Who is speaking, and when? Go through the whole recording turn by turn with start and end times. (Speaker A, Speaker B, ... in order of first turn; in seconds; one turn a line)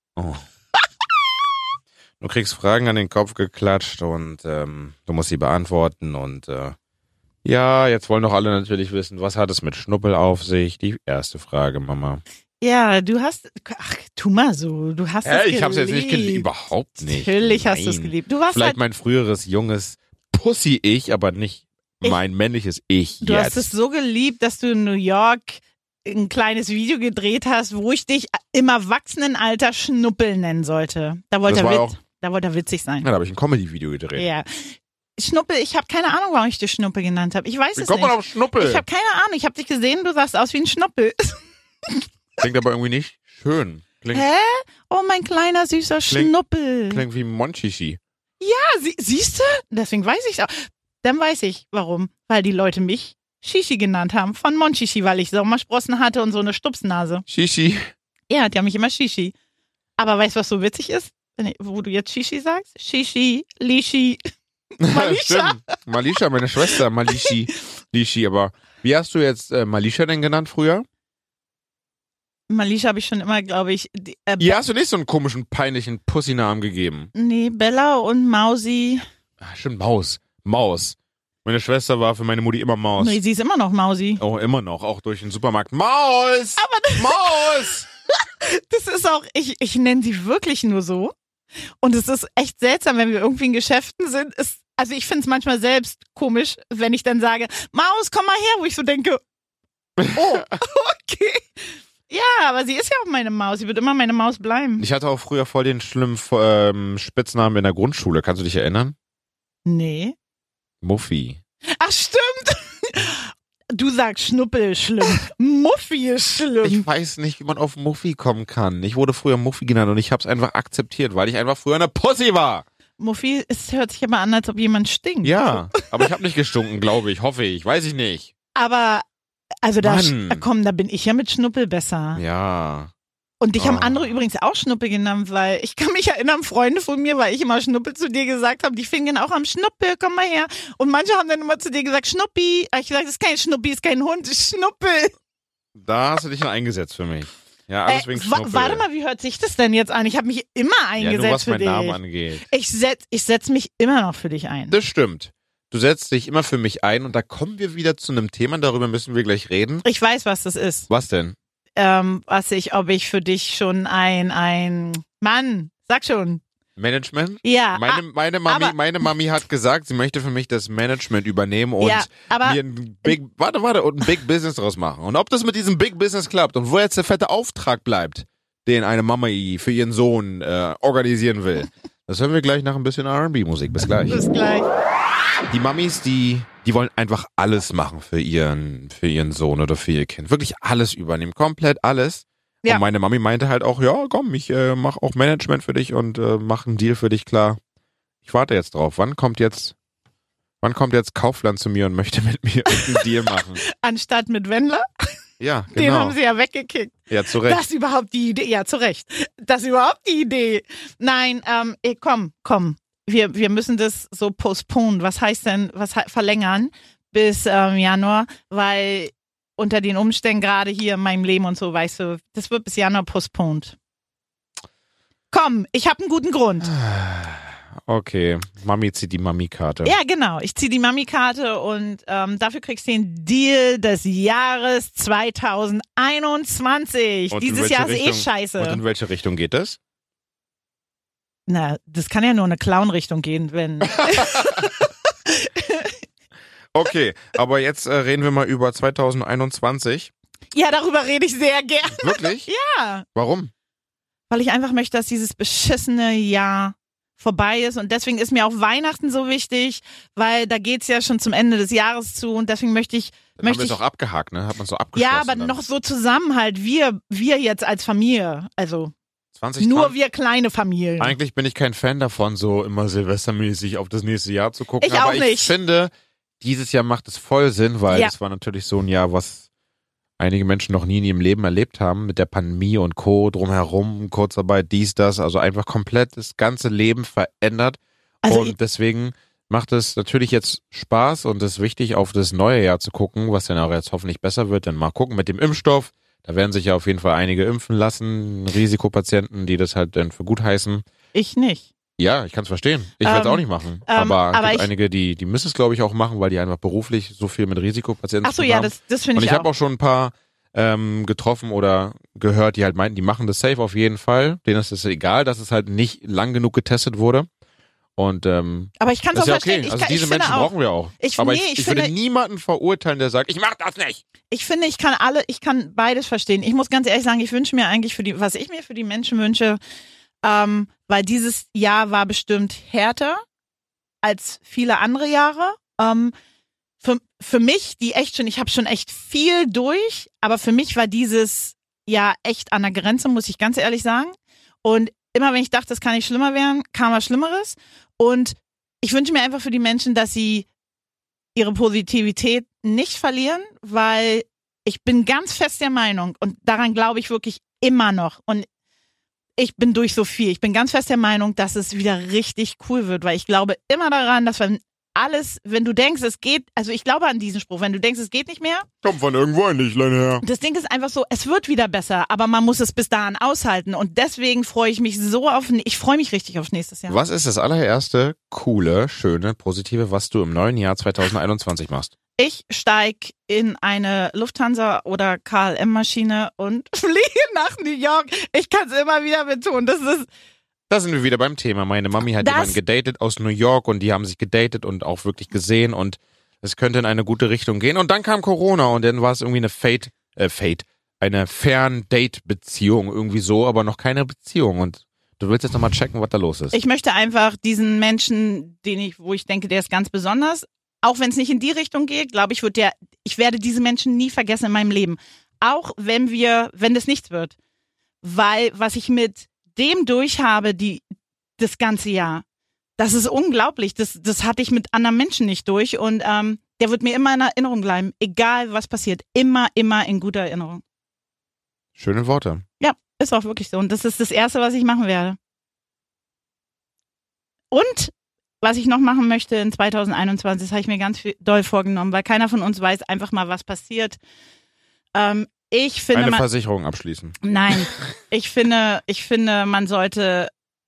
Speaker A: 0.2-0.4
Speaker A: 2.2-6.8
Speaker A: 7.4-12.2
Speaker B: 12.6-16.5
Speaker A: 15.2-23.7
Speaker B: 17.0-18.8
Speaker B: 23.2-33.1
Speaker A: 31.5-31.9
Speaker A: 33.0-34.3
Speaker B: 34.2-42.0
Speaker A: 37.8-38.8
Speaker A: 42.4-44.2
Speaker B: 44.1-47.0
Speaker A: 46.9-48.0
Speaker B: 48.4-57.2
Speaker A: 57.3-57.9
Speaker B: 58.3-59.3
Speaker B: 60.0-64.2
Speaker A: 64.8-70.9
Speaker B: 64.9-65.8
Speaker B: 67.1-67.4
Speaker B: 72.5-74.6
Speaker A: 74.4-77.1
Speaker B: 77.1-79.0
Speaker A: 79.4-83.2
Speaker B: 83.0-84.2
Speaker A: 84.2-87.9
Speaker B: 86.6-87.7
Speaker B: 88.4-91.2
Speaker B: 91.8-99.2
Speaker B: 100.1-104.8
Speaker A: 104.8-109.0
Speaker B: 109.7-110.2
Speaker A: 110.8-111.4
Speaker B: 111.8-116.8
Speaker A: 116.6-122.7
Speaker B: 123.0-126.0
Speaker A: 125.2-128.3
Speaker B: 128.6-129.1
Speaker B: 129.6-132.2
Speaker A: 129.8-130.4
Speaker A: 132.2-132.9
Speaker B: 133.4-145.1
Speaker A: 133.6-134.1
Speaker A: 145.8-148.8
Speaker B: 147.9-154.8
Speaker A: 151.0-152.5
Speaker A: 154.7-159.8
Speaker B: 159.8-160.9
Speaker A: 160.9-161.4
Speaker B: 161.8-166.4
Speaker A: 166.8-184.2
Speaker B: 167.4-168.8
Speaker B: 171.8-173.2
Speaker B: 184.1-184.7
Speaker A: 185.5-197.6
Speaker A: 198.2-199.8
Speaker A: 200.6-203.6
Speaker B: 202.7-203.1
Speaker B: 203.7-204.9
Speaker A: 205.4-206.2
Speaker B: 205.7-223.8
Speaker A: 207.1-207.6
Speaker B: 225.3-226.7
Speaker A: 226.6-229.9
Speaker B: 229.8-238.8
Speaker A: 237.3-239.8
Speaker B: 241.5-246.0
Speaker A: 246.7-250.1
Speaker B: 250.5-253.1
Speaker A: 252.0-252.5
Speaker A: 253.2-253.5
Speaker B: 254.3-263.8
Speaker A: 263.4-265.6
Speaker B: 264.9-268.9
Speaker A: 269.3-269.9
Speaker B: 269.6-271.2
Speaker A: 271.0-279.5
Speaker B: 274.8-275.5
Speaker A: 280.2-300.8
Speaker B: 288.2-288.6
Speaker B: 301.1-301.7
Speaker A: 302.0-317.3
Speaker B: 303.0-304.7
Speaker B: 308.2-309.5
Speaker A: 318.0-324.0
Speaker B: 318.8-321.9
Speaker B: 324.3-329.6
Speaker B: 330.2-333.2
Speaker B: 334.0-336.1
Speaker B: 336.8-350.5
Speaker B: 351.4-358.5
Speaker B: 359.4-368.7
Speaker A: 368.8-370.2
Speaker B: 370.2-377.0
Speaker A: 376.9-381.9
Speaker B: 382.2-390.1
Speaker A: 390.7-406.6
Speaker B: 392.2-392.6
Speaker B: 406.5-417.4
Speaker B: 418.0-420.9
Speaker B: 421.4-422.2
Speaker B: 422.8-430.6
Speaker A: 431.8-432.4
Speaker B: 432.6-435.2
Speaker B: 437.5-444.0
Speaker B: 444.9-446.3
Speaker A: 445.9-447.2
Speaker B: 447.2-450.3